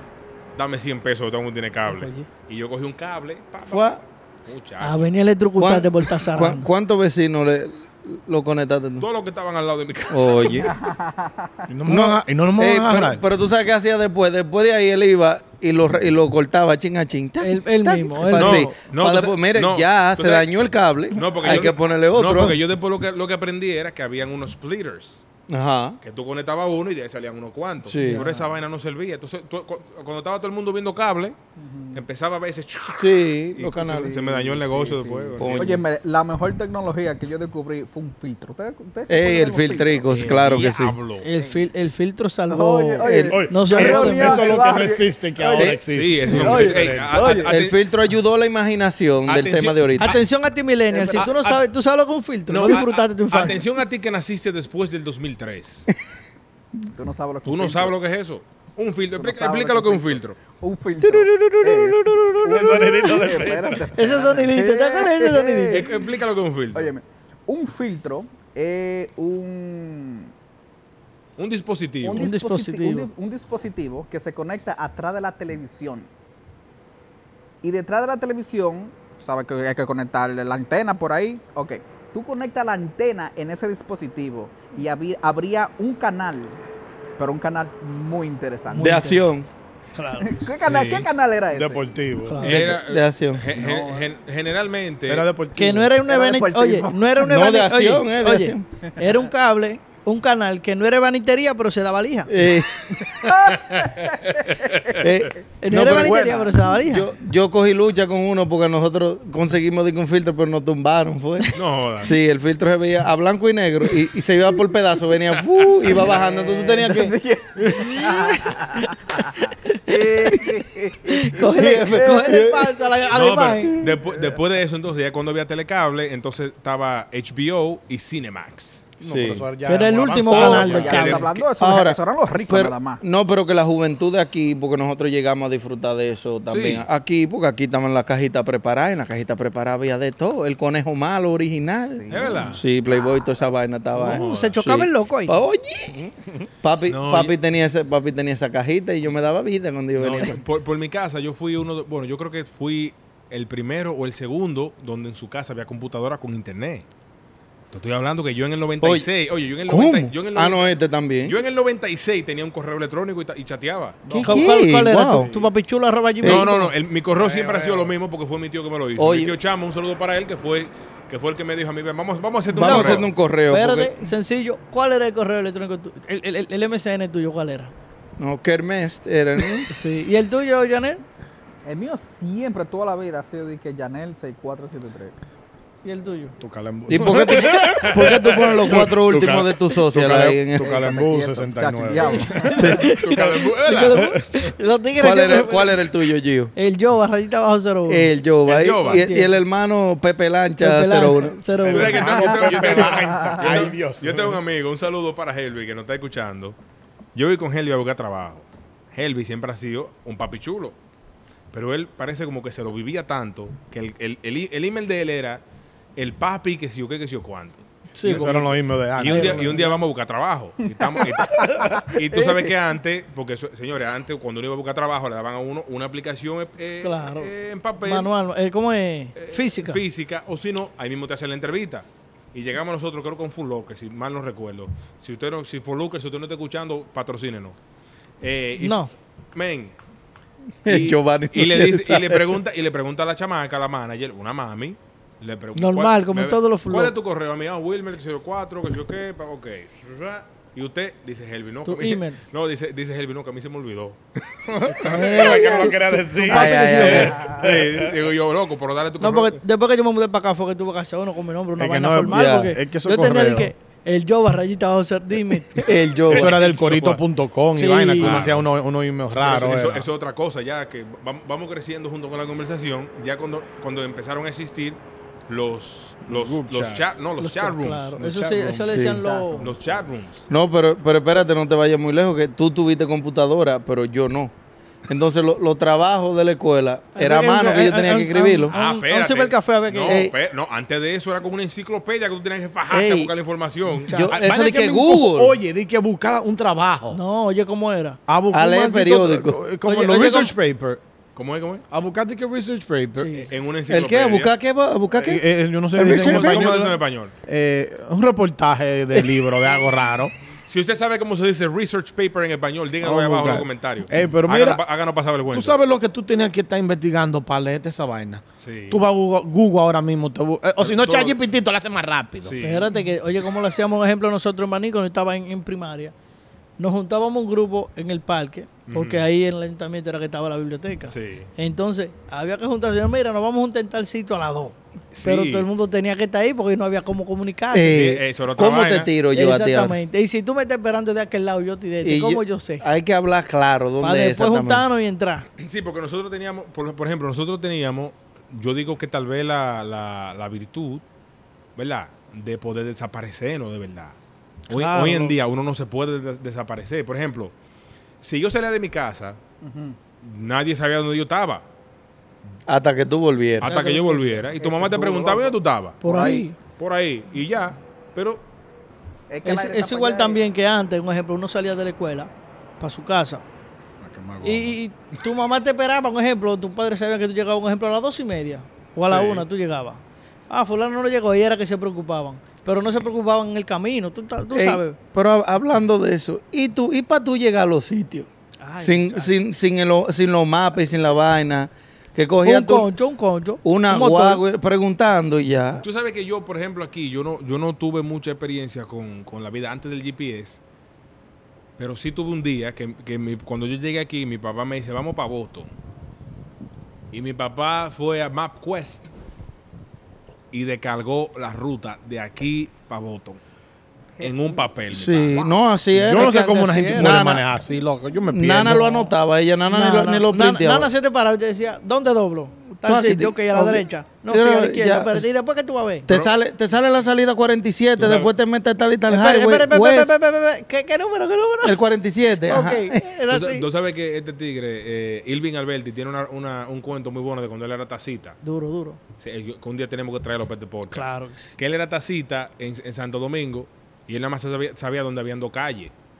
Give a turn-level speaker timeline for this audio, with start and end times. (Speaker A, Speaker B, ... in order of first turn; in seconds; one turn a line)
Speaker A: 0.6-5.1
Speaker B: 1.9-2.3
Speaker C: 3.7-4.0
Speaker B: 4.8-6.7
Speaker C: 5.6-9.1
Speaker A: 9.0-10.7
Speaker C: 10.1-10.7
Speaker D: 10.5-11.7
Speaker E: 11.7-13.2
Speaker C: 11.9-22.6
Speaker B: 17.4-18.8
Speaker A: 18.3-25.2
Speaker C: 25.5-26.0
Speaker A: 26.0-31.4
Speaker C: 27.9-28.3
Speaker B: 28.0-28.3
Speaker D: 28.2-28.5
Speaker D: 31.6-32.0
Speaker A: 31.9-35.8
Speaker C: 33.0-34.1
Speaker D: 33.7-40.4
Speaker C: 35.4-35.8
Speaker C: 39.1-41.0
Speaker A: 40.0-41.3
Speaker B: 41.2-44.6
Speaker D: 41.4-41.6
Speaker D: 42.5-47.5
Speaker C: 43.0-43.4
Speaker E: 43.3-47.2
Speaker A: 45.9-47.8
Speaker C: 47.4-50.2
Speaker A: 49.3-50.2
Speaker B: 50.0-53.7
Speaker D: 50.9-51.3
Speaker A: 51.1-51.6
Speaker A: 52.5-55.9
Speaker D: 56.9-58.0
Speaker A: 57.5-60.4
Speaker D: 59.1-66.1
Speaker C: 61.0-62.3
Speaker B: 61.3-63.2
Speaker E: 62.5-63.9
Speaker B: 63.9-65.9
Speaker A: 65.7-66.9
Speaker D: 66.7-70.3
Speaker A: 71.4-72.3
Speaker D: 72.0-76.1
Speaker B: 72.2-73.1
Speaker D: 77.6-86.6
Speaker D: 87.2-89.0
Speaker B: 88.7-89.3
Speaker C: 88.8-89.5
Speaker B: 90.0-90.5
Speaker D: 90.2-92.0
Speaker A: 90.6-91.1
Speaker E: 91.5-92.7
Speaker B: 92.2-92.7
Speaker A: 92.4-95.3
Speaker C: 92.4-93.5
Speaker D: 93.5-94.1
Speaker E: 95.1-96.0
Speaker B: 95.6-102.3
Speaker D: 96.1-97.2
Speaker C: 97.2-98.7
Speaker D: 98.9-99.2
Speaker C: 102.3-102.8
Speaker D: 103.1-105.0
Speaker A: 103.5-105.0
Speaker C: 105.0-117.2
Speaker B: 105.6-107.1
Speaker D: 105.8-106.6
Speaker A: 111.5-112.1
Speaker D: 115.9-122.5
Speaker B: 117.8-118.8
Speaker B: 119.7-120.5
Speaker B: 121.1-123.8
Speaker C: 121.4-122.7
Speaker A: 123.1-128.9
Speaker D: 124.1-124.4
Speaker E: 129.0-131.2
Speaker C: 129.0-129.5
Speaker B: 129.7-131.3
Speaker C: 130.3-146.1
Speaker A: 130.7-131.3
Speaker D: 130.7-133.0
Speaker A: 136.5-136.9
Speaker D: 141.9-143.2
Speaker A: 142.1-142.6
Speaker B: 143.9-145.4
Speaker A: 144.0-144.7
Speaker C: 146.6-150.4
Speaker A: 146.8-147.3
Speaker A: 150.0-156.8
Speaker A: 157.7-164.1
Speaker C: 158.8-159.1
Speaker C: 159.7-161.4
Speaker C: 164.1-165.3
Speaker E: 164.1-164.4
Speaker B: 164.2-166.7
Speaker C: 166.2-166.5
Speaker A: 166.2-173.1
Speaker E: 167.2-167.9
Speaker C: 169.0-169.3
Speaker C: 172.5-173.9
Speaker B: 172.6-177.7
Speaker C: 178.2-179.7
Speaker B: 179.7-181.0
Speaker D: 181.7-185.2
Speaker B: 185.8-186.4
Speaker E: 186.4-194.4
Speaker C: 186.9-190.7
Speaker D: 190.6-192.8
Speaker B: 192.0-195.8
Speaker A: 192.7-194.2
Speaker C: 195.0-196.5
Speaker B: 196.6-198.1
Speaker C: 197.9-201.4
Speaker A: 198.4-199.1
Speaker B: 198.8-199.4
Speaker B: 200.6-202.3
Speaker E: 201.6-204.4
Speaker A: 201.7-206.6
Speaker D: 202.0-203.8
Speaker A: 207.2-210.8
Speaker A: 211.5-215.4
Speaker A: 216.0-228.1
Speaker B: 217.9-218.4
Speaker E: 218.0-219.7
Speaker B: 219.0-219.8
Speaker D: 220.8-222.5
Speaker E: 221.6-221.8
Speaker B: 226.8-229.8
Speaker A: 229.2-237.6
Speaker A: 238.2-238.8
Speaker B: 238.6-238.9
Speaker A: 239.3-239.7
Speaker C: 240.7-242.3
Speaker A: 240.7-255.8
Speaker B: 245.6-246.9
Speaker B: 251.7-252.2
Speaker E: 254.5-257.9
Speaker B: 254.7-257.2
Speaker C: 256.2-257.3
Speaker D: 257.1-257.5
Speaker A: 257.2-259.4
Speaker B: 259.0-265.7
Speaker E: 261.6-263.5
Speaker C: 262.0-262.6
Speaker C: 265.6-266.4
Speaker A: 266.1-267.0
Speaker E: 266.1-269.9
Speaker B: 267.6-268.3
Speaker A: 268.0-268.5
Speaker A: 269.2-277.9
Speaker E: 276.1-276.9
Speaker B: 277.2-279.5
Speaker E: 278.0-279.0
Speaker C: 278.7-279.0
Speaker D: 279.0-279.6
Speaker A: 279.4-280.2
Speaker C: 280.3-284.3
Speaker C: 284.9-288.5
Speaker B: 286.9-290.0
Speaker A: 288.5-294.3
Speaker C: 289.9-290.1
Speaker C: 292.7-293.1
Speaker B: 293.9-294.1
Speaker C: 293.9-295.4
Speaker E: 294.1-297.0
Speaker B: 296.9-298.0
Speaker E: 298.1-300.8
Speaker C: 298.3-299.4
Speaker B: 299.7-300.3
Speaker A: 301.2-301.6
Speaker E: 301.7-303.1
Speaker B: 303.0-303.3
Speaker A: 303.2-304.3
Speaker C: 303.7-305.2
Speaker E: 305.0-310.1
Speaker C: 305.7-306.7
Speaker A: 305.8-307.1
Speaker A: 310.5-315.6
Speaker E: 312.8-314.6
Speaker E: 315.3-322.4
Speaker A: 318.4-318.8
Speaker A: 320.6-321.2
Speaker A: 322.2-322.8
Speaker B: 322.4-325.9
Speaker B: 326.6-337.9
Speaker A: 328.7-329.1
Speaker A: 330.9-331.3
Speaker A: 334.9-335.5
Speaker C: 337.5-339.8
Speaker A: 337.7-338.9
Speaker B: 339.1-342.7
Speaker C: 341.8-344.7
Speaker B: 343.8-345.3
Speaker A: 345.4-350.8
Speaker A: 351.6-354.0
Speaker B: 354.5-355.1
Speaker A: 354.5-357.3
Speaker A: 358.0-359.2
Speaker D: 359.4-359.8
Speaker A: 360.0-361.4
Speaker C: 362.5-363.5
Speaker A: 363.4-368.2
Speaker B: 363.4-364.2
Speaker D: 364.3-366.2
Speaker B: 365.8-366.4
Speaker D: 369.1-370.2
Speaker B: 369.2-373.2
Speaker E: 373.8-374.6
Speaker B: 374.2-384.8
Speaker A: 378.9-379.3
Speaker C: 384.3-392.7
Speaker B: 388.4-389.2
Speaker B: 392.2-394.2
Speaker C: 393.4-395.6
Speaker A: 395.6-400.4
Speaker A: 401.6-405.5
Speaker A: 406.9-408.9
Speaker A: 410.3-413.2
Speaker D: 414.0-414.4
Speaker A: 414.0-415.2
Speaker C: 414.7-416.2
Speaker E: 415.7-418.7
Speaker B: 415.9-417.0
Speaker C: 416.7-417.2
Speaker C: 418.1-420.7
Speaker B: 418.4-418.9
Speaker B: 419.5-425.9
Speaker C: 422.6-425.1
Speaker C: 425.9-430.0
Speaker A: 425.9-426.1
Speaker A: 427.8-428.1
Speaker B: 428.9-431.6
Speaker C: 431.4-432.9
Speaker B: 432.2-433.5
Speaker A: 433.1-438.2
Speaker B: 438.2-438.8
Speaker A: 439.0-445.7
Speaker B: 440.7-441.4